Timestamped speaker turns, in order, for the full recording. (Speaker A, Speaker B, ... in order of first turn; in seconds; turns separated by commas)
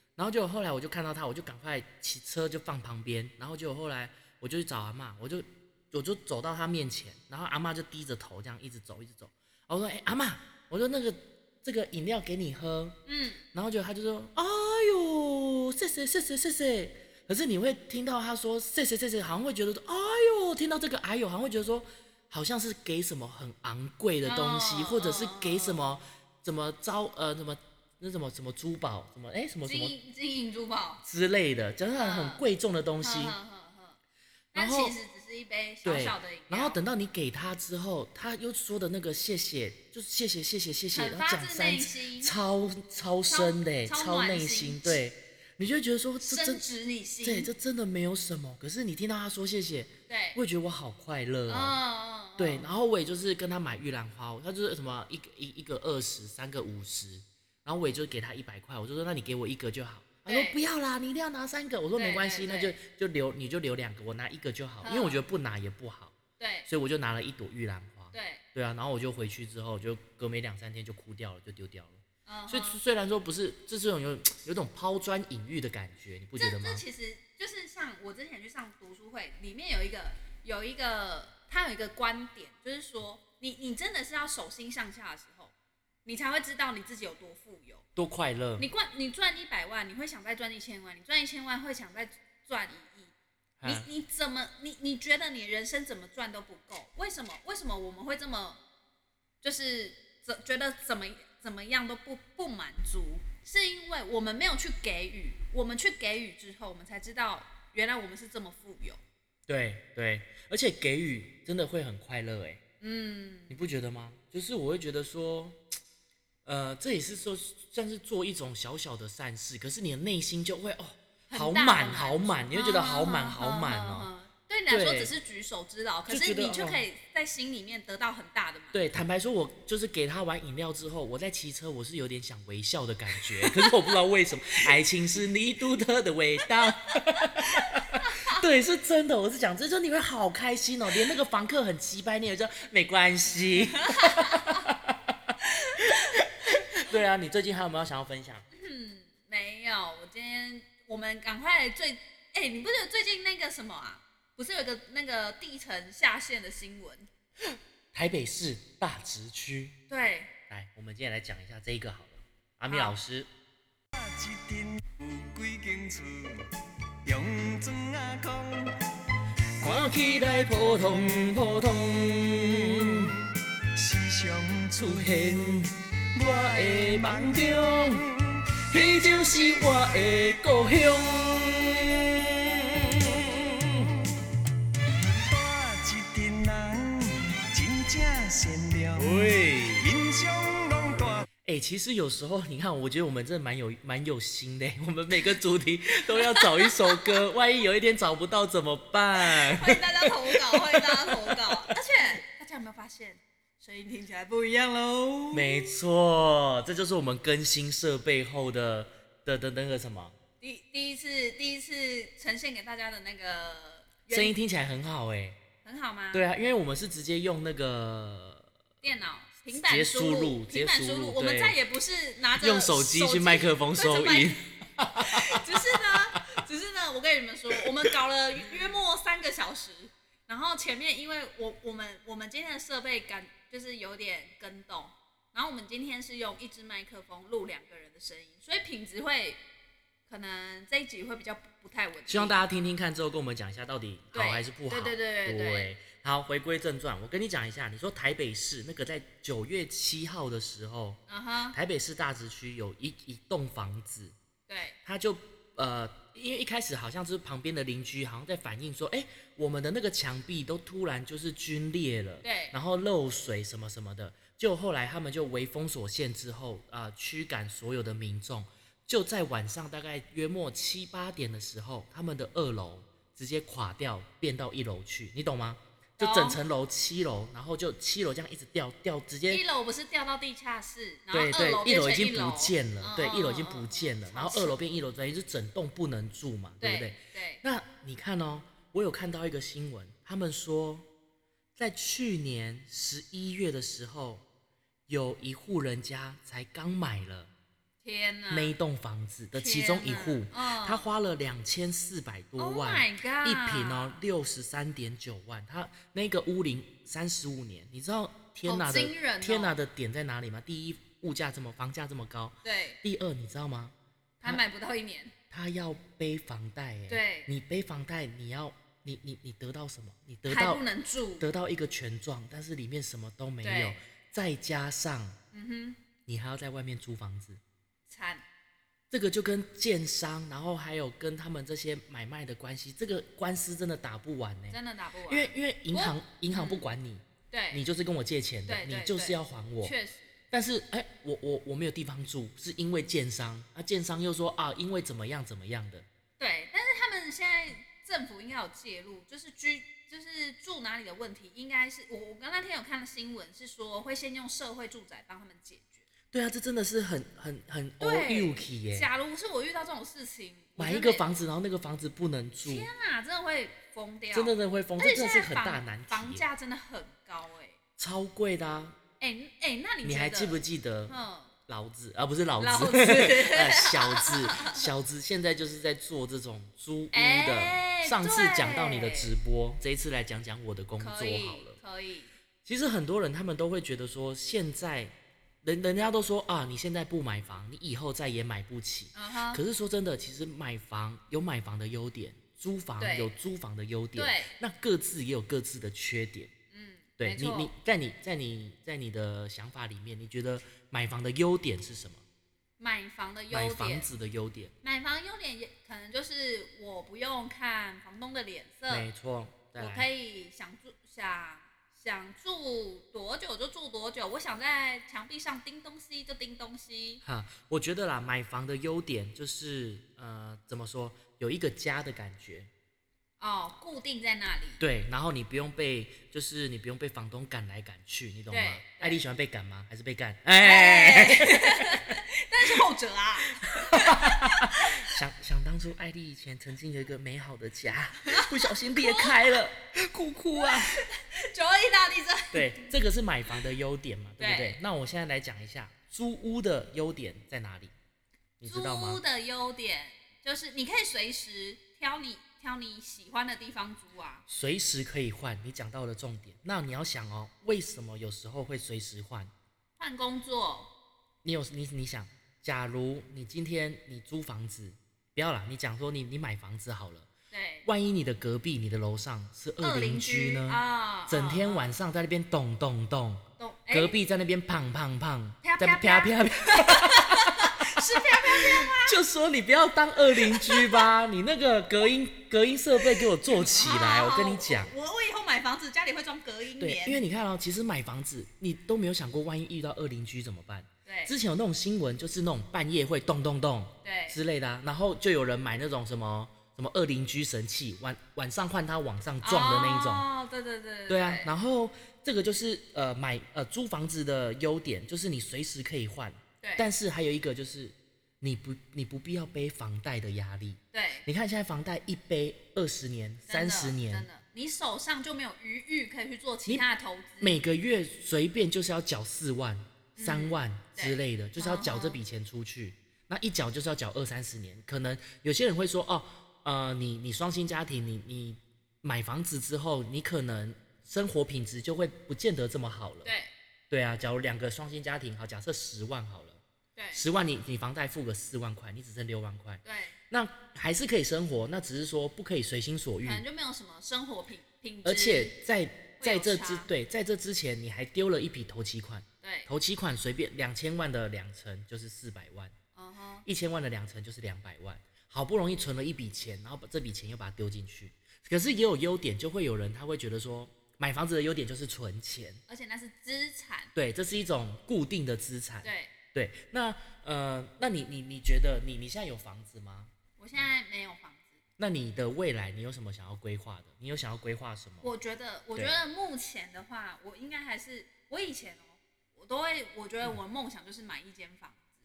Speaker A: 0.2-13.0, Speaker B: 13.1-13.4, Speaker A: 13.5-29.9, Speaker B: 24.2-25.8, Speaker B: 29.6-31.0, Speaker A: 31.0-33.4, Speaker B: 31.9-32.4, Speaker B: 33.0-34.0, Speaker B: 34.5-36.8, Speaker A: 34.5-34.9, Speaker A: 35.8-46.6, Speaker B: 40.9-42.3, Speaker B: 43.3-45.0, Speaker B: 46.2-47.5, Speaker A: 47.2-51.8, Speaker B: 50.1-50.4, Speaker B: 51.5-52.7, Speaker A: 52.4-76.8, Speaker B: 60.3-60.6, Speaker B: 61.9-62.7, Speaker B: 64.8-65.2, Speaker B: 66.4-66.7, Speaker B: 68.1-68.4, Speaker B: 72.2-72.8, Speaker B: 76.4-85.5, Speaker B: 86.0-87.8, Speaker A: 88.0-88.7, Speaker B: 88.6-98.6, Speaker A: 93.6-93.8, Speaker B: 99.4-109.0, Speaker A: 109.5-112.6, Speaker B: 112.8-113.6, Speaker A: 113.5-115.6, Speaker A: 116.4-124.1, Speaker B: 121.3-128.8, Speaker A: 124.7-125.1, Speaker A: 126.1-126.8, Speaker A: 128.7-148.4, Speaker B: 133.4-133.9, Speaker B: 136.6-138.4, Speaker B: 143.6-144.7, Speaker B: 145.4-146.2, Speaker B: 146.7-147.0, Speaker B: 148.5-157.1, Speaker A: 157.4-159.8, Speaker B: 159.9-160.3, Speaker A: 160.5-163.3, Speaker B: 162.7-163.0, Speaker C: 163.9-166.5, Speaker C: 167.0-168.8, Speaker C: 169.6-178.4, Speaker A: 169.6-173.1, Speaker A: 174.8-178.0, Speaker A: 178.7-183.8, Speaker C: 179.0-180.2, Speaker C: 182.9-184.1, Speaker C: 185.0-191.3, Speaker A: 189.0-189.9, Speaker A: 191.4-201.8, Speaker B: 196.1-197.2, Speaker B: 199.2-205.8, Speaker A: 205.3-210.1, Speaker B: 210.4-214.3, Speaker A: 214.1-215.4, Speaker B: 215.6-216.2, Speaker A: 216.1-218.5, Speaker B: 218.8-224.4, Speaker A: 219.5-221.6, Speaker A: 222.4-226.4, Speaker B: 225.0-239.4, Speaker B: 240.1-242.4, Speaker A: 242.1-251.0, Speaker B: 244.1-245.7, Speaker B: 251.1-251.6, Speaker A: 251.5-254.1, Speaker B: 254.5-254.8, Speaker A: 254.8-279.4, Speaker B: 262.2-262.5, Speaker B: 276.0-276.4, Speaker B: 279.3-284.6, Speaker A: 281.1-290.9, Speaker B: 286.6-287.4, Speaker A: 291.6-294.2, Speaker A: 294.9-297.3, Speaker B: 297.8-298.6, Speaker A: 298.3-314.4, Speaker B: 299.3-300.9, Speaker B: 302.4-304.0, Speaker B: 308.4-309.6, Speaker B: 312.4-312.8, Speaker B: 314.2-315.1, Speaker A: 315.3-320.6, Speaker B: 316.9-317.3, Speaker B: 320.2-321.2, Speaker A: 321.2-325.2, Speaker B: 323.4-323.8, Speaker B: 325.3-325.8, Speaker A: 326.1-327.4, Speaker B: 327.9-328.2, Speaker A: 328.9-339.7, Speaker B: 334.5-336.7, Speaker B: 337.3-337.6, Speaker B: 338.5-340.1, Speaker A: 340.3-345.9, Speaker B: 346.2-355.8, Speaker A: 356.1-358.9, Speaker B: 357.8-361.0, Speaker A: 360.6-362.7, Speaker B: 362.4-367.6, Speaker A: 364.1-366.2, Speaker A: 367.8-368.8, Speaker B: 369.0-371.3, Speaker A: 369.8-370.9, Speaker A: 371.5-381.6, Speaker B: 372.4-374.7, Speaker B: 376.9-379.1, Speaker B: 380.8-382.1, Speaker A: 382.4-396.3, Speaker B: 388.9-389.4, Speaker B: 392.8-393.1, Speaker B: 393.9-394.3, Speaker B: 396.5-397.5, Speaker A: 397.0-402.0, Speaker B: 402.6-403.9, Speaker A: 403.3-404.5, Speaker B: 404.6-408.9, Speaker A: 408.7-409.9, Speaker B: 409.6-417.0, Speaker A: 417.0-422.5, Speaker B: 423.2-424.6, Speaker A: 424.6-432.0, Speaker B: 428.3-429.0, Speaker B: 430.4-434.9, Speaker A: 433.4-440.8, Speaker B: 438.1-439.3, Speaker B: 440.4-442.5, Speaker A: 442.3-447.7, Speaker B: 444.2-444.6, Speaker A: 448.4-449.0, Speaker B: 448.4-454.2, Speaker A: 454.3-459.3, Speaker B: 459.8-460.7, Speaker A: 461.2-467.1, Speaker B: 467.3-467.7, Speaker A: 467.6-484.7, Speaker B: 469.6-471.7, Speaker B: 473.4-474.0, Speaker B: 475.4-479.0, Speaker B: 480.1-480.9, Speaker B: 483.0-487.0, Speaker A: 486.6-500.1, Speaker B: 490.8-491.1, Speaker B: 493.8-494.2, Speaker B: 499.2-501.3, Speaker A: 500.9-514.1, Speaker B: 506.4-506.7, Speaker B: 510.7-511.1, Speaker B: 513.3-517.4, Speaker A: 517.2-533.1, Speaker B: 520.0-522.0, Speaker B: 533.0-533.3, Speaker A: 533.7-536.4, Speaker B: 536.7-537.0, Speaker A: 536.9-543.2, Speaker B: 539.6-539.9, Speaker B: 543.0-545.4, Speaker A: 544.8-552.5, Speaker B: 546.0-546.7, Speaker B: 549.2-549.5, Speaker B: 552.7-553.2, Speaker A: 553.2-562.4, Speaker B: 562.5-563.7, Speaker A: 563.7-570.4, Speaker B: 565.6-565.9, Speaker B: 570.2-571.4, Speaker A: 571.6-574.9, Speaker B: 574.8-581.7